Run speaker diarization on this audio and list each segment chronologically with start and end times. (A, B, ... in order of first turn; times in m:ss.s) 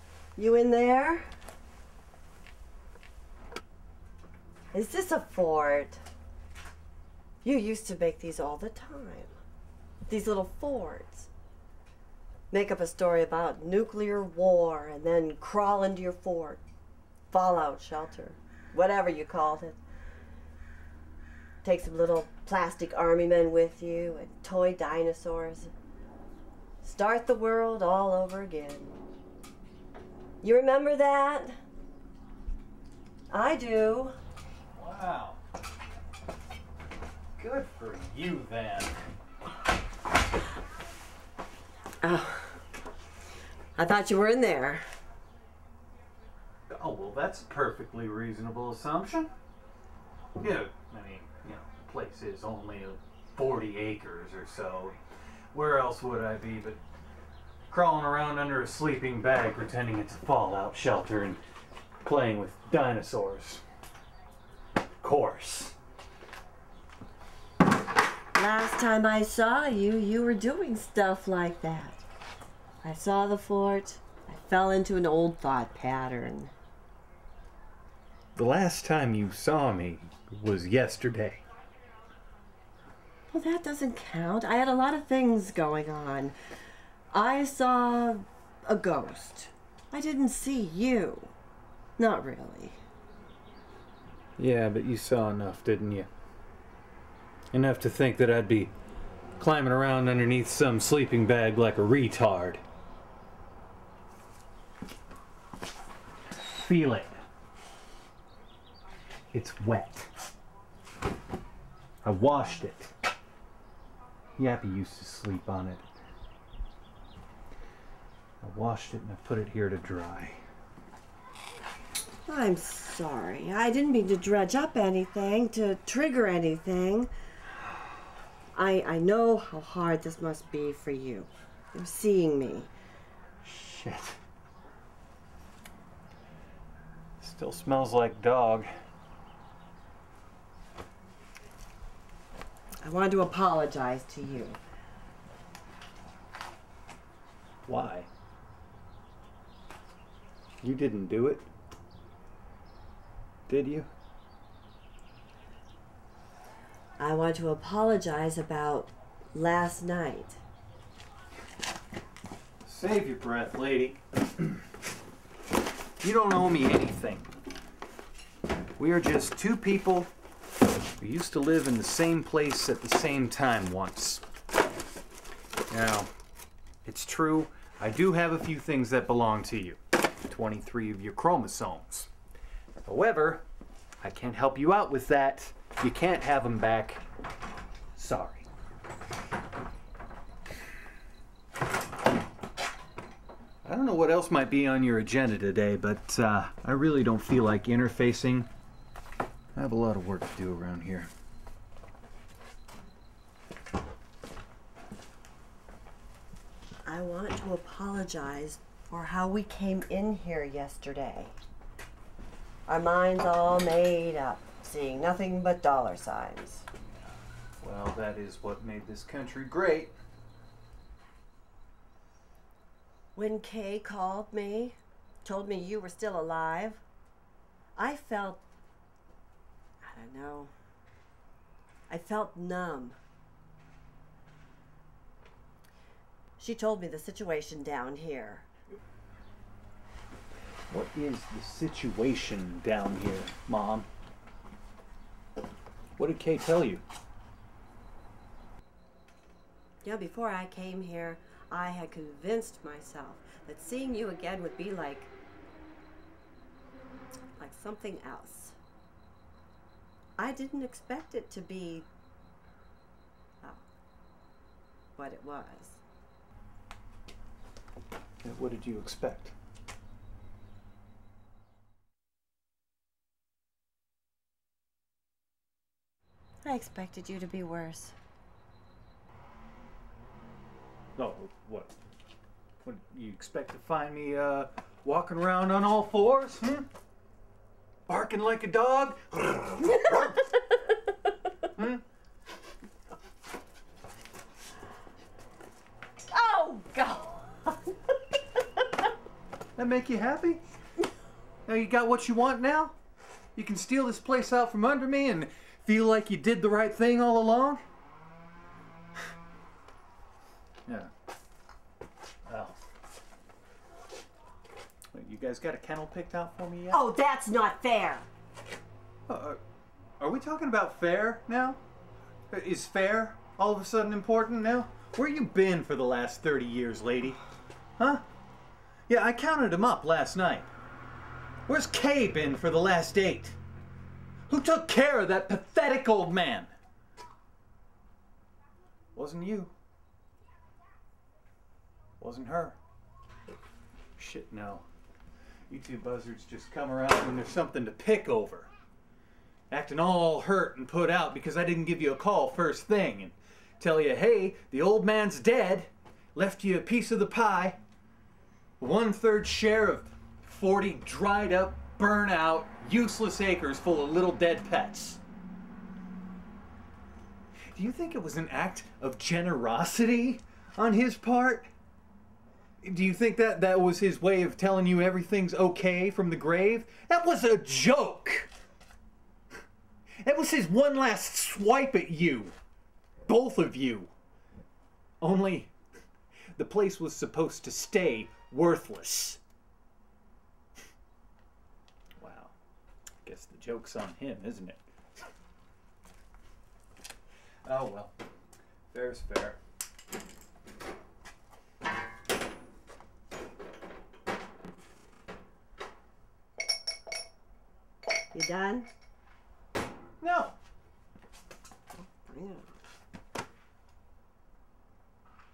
0:00.4-0:01.2 A
0:04.7-0:06.0 A
0:07.4-0:09.3 A
0:10.1-0:11.3 A
0:12.5-0:16.6 A
0:17.3-0:19.8 A
0:21.6-0:25.7 A
0:26.8-0:28.9 A
0:30.4-0:31.6 A
0:33.3-0:34.1 A
0:34.7-0:35.4 B
0:37.4-0:38.9 B
0:42.0-0:42.6 A
0:43.8-0:44.8 A
0:46.7-0:49.3 B
0:50.4-0:55.0 B
0:55.5-0:56.8 B
0:57.7-1:01.4 B
1:02.0-1:03.6 B
1:05.0-1:05.8 B
1:08.3-1:12.0 A
1:12.8-1:16.5 A
1:18.4-1:21.4 B
1:23.3-1:26.4 A
1:27.1-1:31.3 A
1:32.0-1:32.8 A
1:34.4-1:36.1 B
1:37.5-1:38.7 B
1:39.4-1:42.6 B
1:46.4-1:47.1 B
1:49.3-1:50.1 B
1:52.0-1:52.9 B
1:54.4-1:55.8 B
1:58.4-2:00.4 B
2:02.2-2:07.1 A
2:08.5-2:12.7 A
2:13.4-2:14.2 B
2:17.2-2:18.7 B
2:22.8-2:24.6 A
2:27.7-2:28.1 B
2:30.6-2:31.5 B
2:33.5-2:33.9 B
2:37.0-2:40.4 A
2:42.6-2:44.0 B
2:46.0-2:47.3 B
2:48.8-2:50.1 B
2:51.0-2:54.2 B
2:55.7-2:56.1 B
2:56.8-3:02.1 B
3:02.8-3:03.4 B
3:04.0-3:07.0 B
3:08.0-3:08.5 B
3:13.6-3:18.5 B
3:19.5-3:21.1 B
3:26.8-3:31.4 A
3:32.7-3:36.7 A
3:37.6-3:39.9 B
3:43.1-3:46.8 A
3:47.8-3:48.4 A
3:49.8-3:50.5 A
3:51.9-3:53.0 A
3:56.4-3:58.5 A
4:00.7-4:03.9 B
4:06.0-4:06.8 B
4:09.8-4:15.1 A
4:17.4-4:18.6 A
4:20.2-4:21.9 A
4:25.0-4:25.8 A
4:28.2-4:29.3 B
4:36.4-4:38.0 A
4:41.0-4:41.7 B
4:42.6-4:46.7 B
4:47.9-4:50.3 B
4:51.6-4:51.8 B
4:56.1-4:57.6 A
4:59.6-5:00.4 B
5:01.5-5:02.8 B
5:03.3-5:07.6 B
5:12.2-5:12.6 B
5:14.9-5:16.8 B
5:16.7-5:18.1 A
5:19.1-5:19.4 B
5:20.0-5:21.6 B
5:22.3-5:27.2 B
5:27.8-5:28.0 B
5:28.9-5:30.5 B
5:31.5-5:33.4 B
5:34.3-5:36.5 B
5:38.9-5:39.5 B
5:42.0-5:42.6 B
5:44.0-5:44.6 B
5:45.5-5:48.5 B
5:49.5-5:57.6 B
5:58.6-6:05.0 B
6:07.5-6:11.5 B
6:12.6-6:18.3 B
6:20.0-6:22.3 B
6:23.1-6:23.9 B
6:25.0-6:25.5 B
6:26.4-6:29.2 B
6:32.0-6:32.3 B
6:33.0-6:34.6 B
6:37.4-6:37.9 B
6:38.7-6:39.4 B
6:48.1-6:48.7 A
6:50.0-6:50.4 B
6:51.8-6:52.5 A